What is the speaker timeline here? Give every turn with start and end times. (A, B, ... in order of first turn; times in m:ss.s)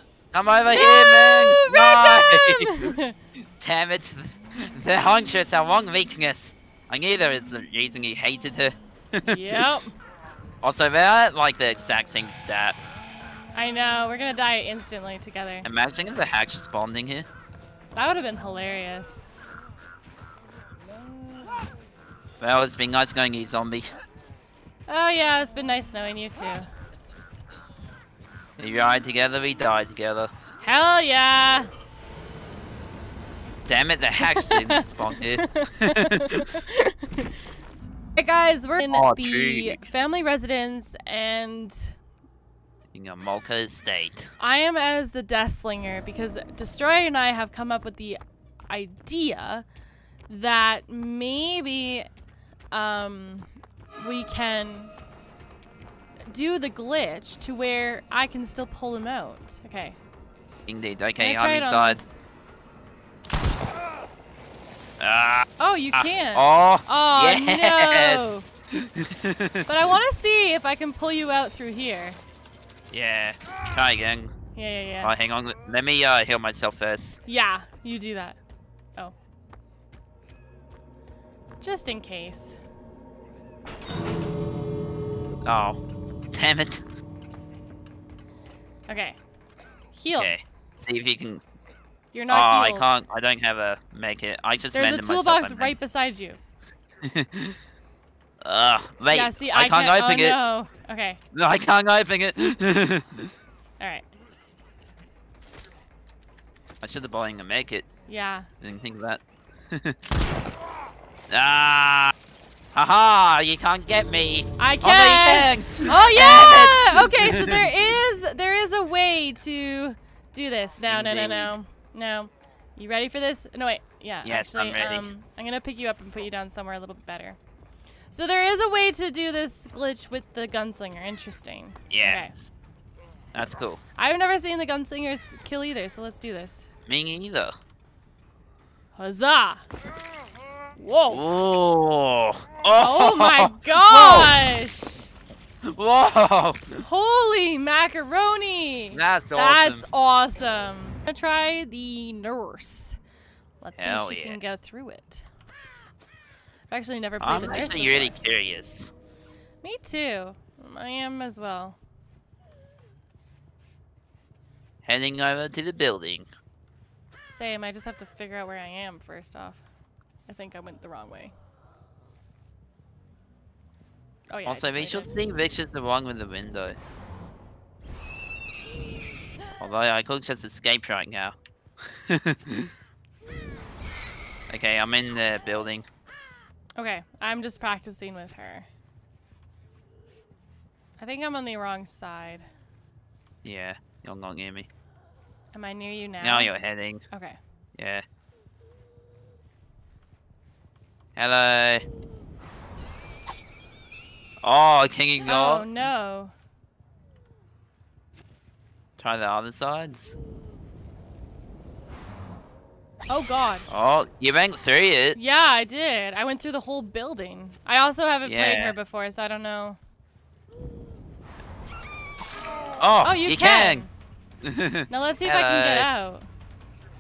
0:00.3-0:02.9 A
0:00.7-0:03.2 B
0:03.6-0:09.6 A
0:09.2-0:09.9 B
0:10.6-0:12.8 A
0:13.6-0:15.7 B
0:15.6-0:17.3 A
0:18.0-0:19.2 B
0:22.4-0:23.9 A
0:24.9-0:26.7 B
0:28.6-0:30.3 A
0:30.6-0:31.7 B
0:33.7-0:36.6 A
0:34.2-0:37.3 B
0:38.0-0:42.0 B
0:38.9-0:39.8 A
0:42.9-0:44.3 A
0:44.4-0:49.6 B
0:50.3-0:52.1 B
0:52.7-0:54.9 B
0:56.3-1:00.0 B
1:00.7-1:02.0 A
1:01.2-1:02.2 B
1:05.0-1:09.7 A
1:05.6-1:08.4 B
1:09.7-1:12.2 B
1:12.9-1:14.3 A
1:14.6-1:15.1 B
1:15.0-1:17.2 A
1:17.3-1:18.4 B
1:21.6-1:22.6 B
1:25.5-1:25.8 A
1:26.3-1:26.8 A
1:28.9-1:29.2 B
1:30.0-1:30.4 B
1:30.2-1:31.4 A
1:32.1-1:32.9 B
1:32.3-1:35.8 A
1:34.7-1:36.4 B
1:37.0-1:37.6 A
1:38.4-1:40.4 A
1:39.1-1:41.2 B
1:41.3-1:43.3 A
1:43.8-1:44.0 B
1:46.8-1:47.9 A
1:48.1-1:48.5 B
1:48.6-1:49.2 A
1:49.7-1:50.0 A
1:51.3-1:52.1 A
1:52.7-1:57.7 A
1:54.6-2:07.4 B
2:00.9-2:01.6 A
2:04.2-2:05.1 A
2:08.1-2:12.3 B
2:11.9-2:12.5 A
2:13.3-2:13.8 A
2:14.0-2:16.7 B
2:16.9-2:17.5 A
2:19.0-2:19.6 B
2:20.8-2:21.2 B
2:21.1-2:24.4 A
2:22.8-2:25.1 B
2:25.6-2:26.8 A
2:26.8-2:33.0 B
2:28.9-2:29.8 A
2:33.6-2:35.2 B
2:33.8-2:34.4 A
2:36.7-2:38.1 B
2:37.2-2:38.9 A
2:39.6-2:41.8 B
2:44.8-2:46.3 A
2:47.3-2:49.6 B
2:50.3-2:51.3 B
2:54.3-2:55.1 B
2:54.5-2:56.8 A
2:59.6-3:01.4 A
3:01.9-3:02.7 A
3:04.5-3:05.9 A
3:06.8-3:08.7 B
3:11.0-3:12.5 B
3:13.4-3:14.7 A
3:15.5-3:16.5 B
3:16.2-3:17.0 A
3:17.1-3:17.4 B
3:17.8-3:18.0 A
3:21.2-3:21.8 A
3:24.4-3:25.7 A
3:25.3-3:26.3 B
3:29.0-3:30.2 A
3:33.1-3:33.7 B
3:33.7-3:35.2 A
3:35.2-3:39.8 B
3:38.2-3:38.8 A
3:42.8-3:43.8 A
3:43.0-3:43.9 B
3:44.4-3:45.9 A
3:44.9-3:46.3 B